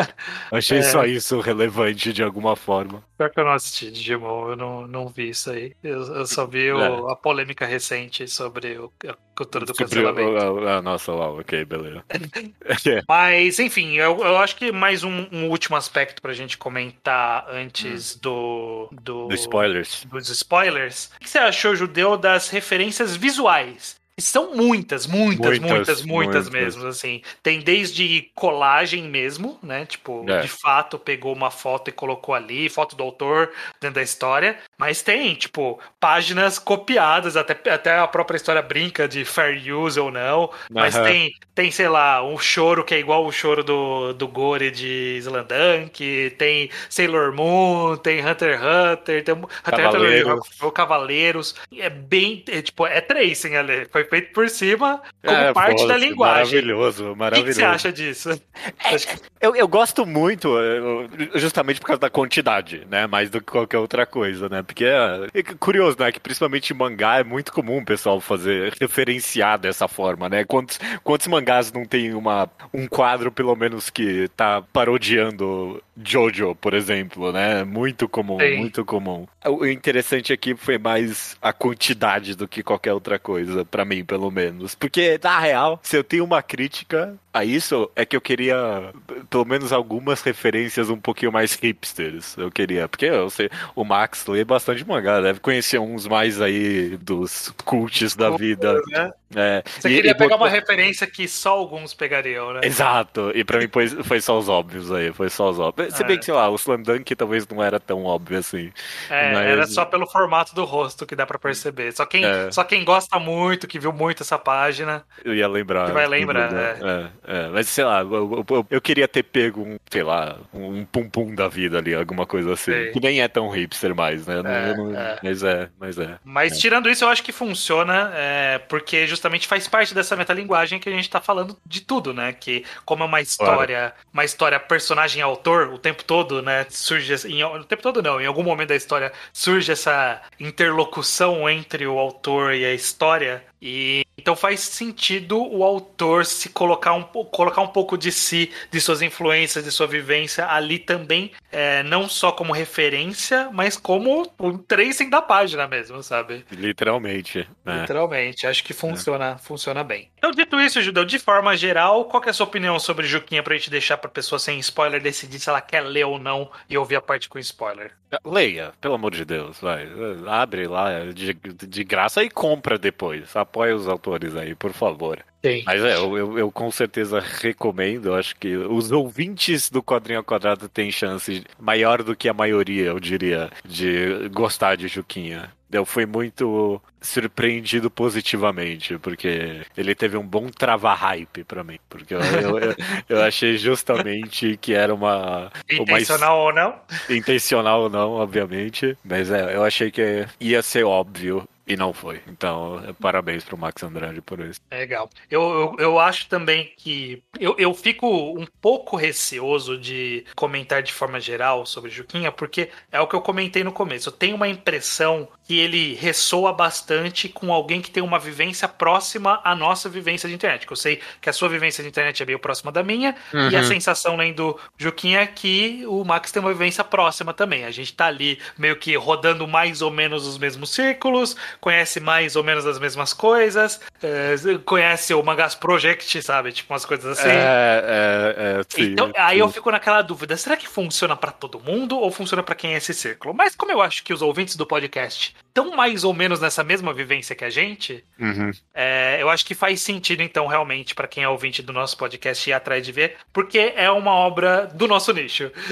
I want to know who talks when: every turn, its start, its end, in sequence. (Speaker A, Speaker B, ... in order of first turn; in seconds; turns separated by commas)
Speaker A: 0.5-3.0, Speaker B: 0.7-1.1, Speaker B: 3.2-10.4, Speaker A: 6.7-7.0, Speaker A: 9.5-12.1, Speaker A: 12.7-13.0, Speaker B: 13.1-56.7, Speaker A: 19.3-20.1, Speaker A: 25.3-26.8, Speaker A: 30.2-30.5, Speaker A: 40.7-41.2, Speaker A: 49.7-50.5, Speaker A: 55.2-57.8, Speaker B: 57.3-59.1, Speaker A: 58.8-100.6, Speaker B: 78.4-78.7, Speaker B: 98.2-99.1, Speaker B: 99.8-102.7, Speaker A: 102.6-109.9, Speaker B: 105.9-106.3, Speaker B: 109.1-115.0, Speaker A: 112.2-112.6, Speaker A: 115.2-126.6, Speaker B: 115.8-116.8, Speaker B: 122.7-123.0, Speaker B: 124.4-125.2, Speaker B: 126.2-156.5, Speaker A: 133.4-133.7, Speaker A: 156.5-157.9, Speaker B: 157.7-167.9, Speaker A: 168.1-196.3, Speaker B: 175.4-175.7, Speaker B: 192.2-192.8, Speaker B: 195.7-196.9, Speaker A: 197.1-204.6, Speaker B: 204.7-237.5, Speaker A: 223.3-223.8, Speaker A: 237.2-239.6, Speaker B: 238.7-248.1, Speaker A: 248.2-248.6, Speaker B: 248.7-255.5